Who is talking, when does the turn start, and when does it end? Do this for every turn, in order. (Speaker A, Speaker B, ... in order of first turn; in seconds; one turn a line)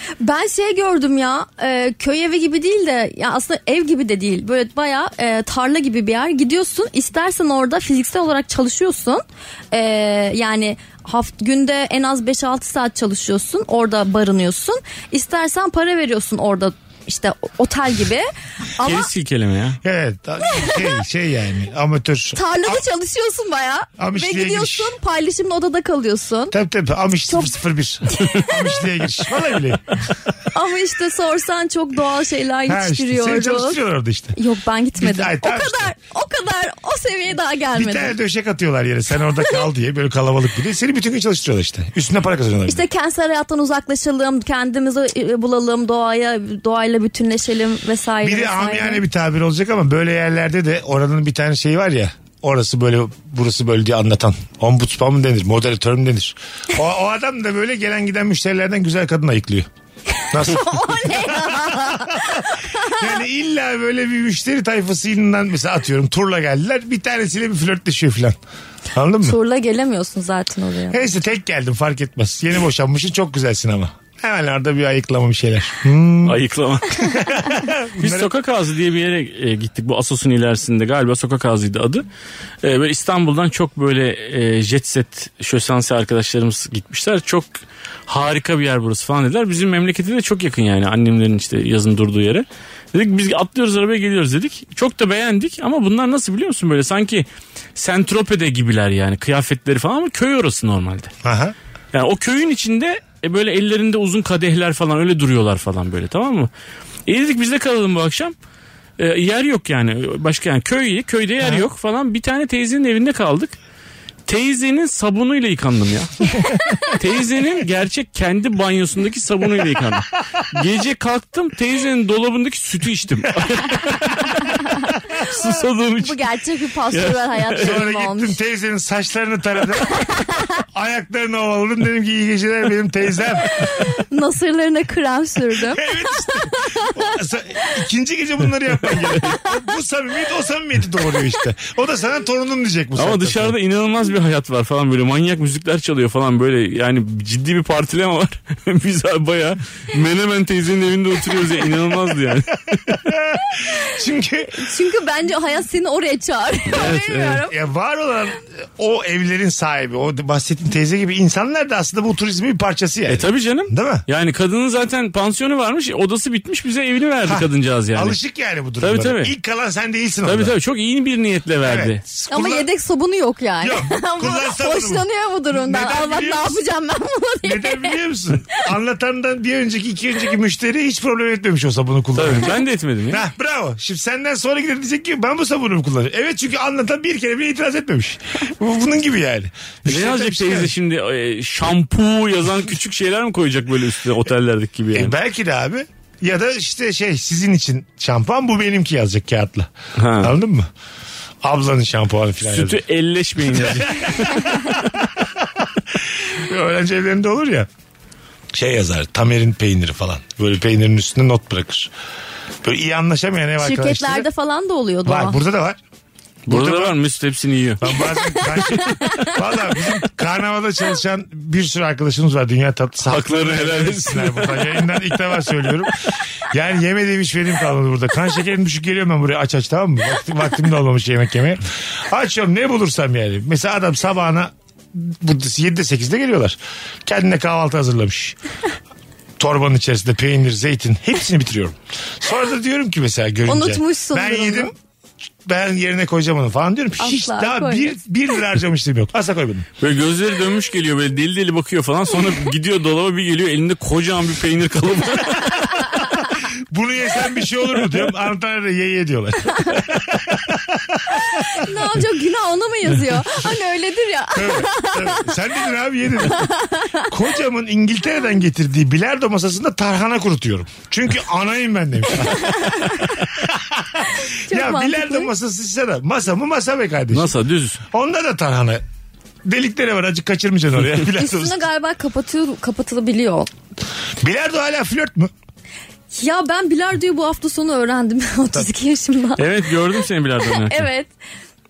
Speaker A: 0.2-19.1
Speaker B: 18.8-19.8
Speaker C: 19.8-22.8
Speaker A: 20.5-20.9
Speaker A: 22.4-26.5
Speaker C: 24.0-24.9
Speaker C: 26.5-30.0
Speaker A: 28.1-28.5
Speaker A: 30.5-33.8
Speaker C: 32.7-34.4
Speaker A: 34.4-38.1
Speaker C: 35.0-35.9
Speaker C: 37.8-42.9
Speaker A: 42.7-49.0
Speaker C: 48.2-59.7
Speaker C: 60.3-68.4
Speaker A: 60.3-63.0
Speaker C: 68.9-69.4
Speaker A: 69.2-71.0
Speaker C: 70.9-76.4
Speaker B: 76.2-77.3
Speaker C: 77.0-78.3
Speaker B: 78.0-82.0
Speaker B: 82.6-87.5
Speaker B: 88.1-101.1
Speaker C: 101.2-101.5
Speaker B: 101.9-106.5
Speaker B: 107.1-108.3
Speaker B: 109.0-113.6
Speaker B: 114.3-116.3
Speaker B: 116.8-126.3
Speaker A: 124.4-124.9
Speaker A: 126.0-128.4
Speaker B: 126.9-127.8
Speaker C: 127.6-130.1
Speaker A: 130.1-130.4
Speaker C: 130.7-133.7
Speaker A: 133.7-136.9
Speaker C: 135.6-143.6
Speaker B: 143.0-153.0
Speaker C: 153.1-154.7
Speaker A: 154.5-157.5
Speaker B: 156.7-157.4
Speaker C: 157.4-164.1
Speaker B: 163.1-168.2
Speaker C: 167.3-170.5
Speaker B: 168.8-169.3
Speaker B: 170.2-172.0
Speaker C: 171.6-172.7
Speaker A: 172.3-178.0
Speaker C: 173.6-176.6
Speaker C: 177.4-182.6
Speaker B: 182.2-183.2
Speaker C: 183.1-190.7
Speaker B: 189.9-195.1
Speaker C: 194.9-200.7
Speaker B: 200.0-200.3
Speaker C: 201.4-202.8
Speaker B: 202.4-204.9
Speaker C: 203.5-207.7
Speaker C: 208.5-211.9
Speaker C: 212.6-214.3
Speaker A: 213.6-215.4
Speaker C: 215.1-215.8
Speaker C: 216.5-217.0
Speaker B: 216.5-217.9
Speaker C: 217.8-225.9
Speaker A: 217.9-219.4
Speaker B: 223.1-225.0
Speaker C: 226.5-238.4
Speaker C: 239.4-244.8
Speaker A: 243.5-244.7
Speaker C: 245.4-249.7
Speaker A: 247.0-248.0
Speaker B: 249.8-255.7
Speaker C: 256.7-261.5
Speaker A: 261.3-265.3
Speaker C: 264.3-266.5
Speaker A: 266.3-267.1
Speaker C: 267.0-277.3
Speaker A: 272.4-273.1
Speaker A: 274.1-275.3
Speaker B: 277.1-277.8
Speaker C: 277.9-278.8
Speaker C: 279.4-281.6
Speaker A: 281.1-283.5
Speaker C: 284.2-285.3
Speaker A: 286.1-289.4
Speaker B: 289.4-290.9
Speaker A: 290.7-291.1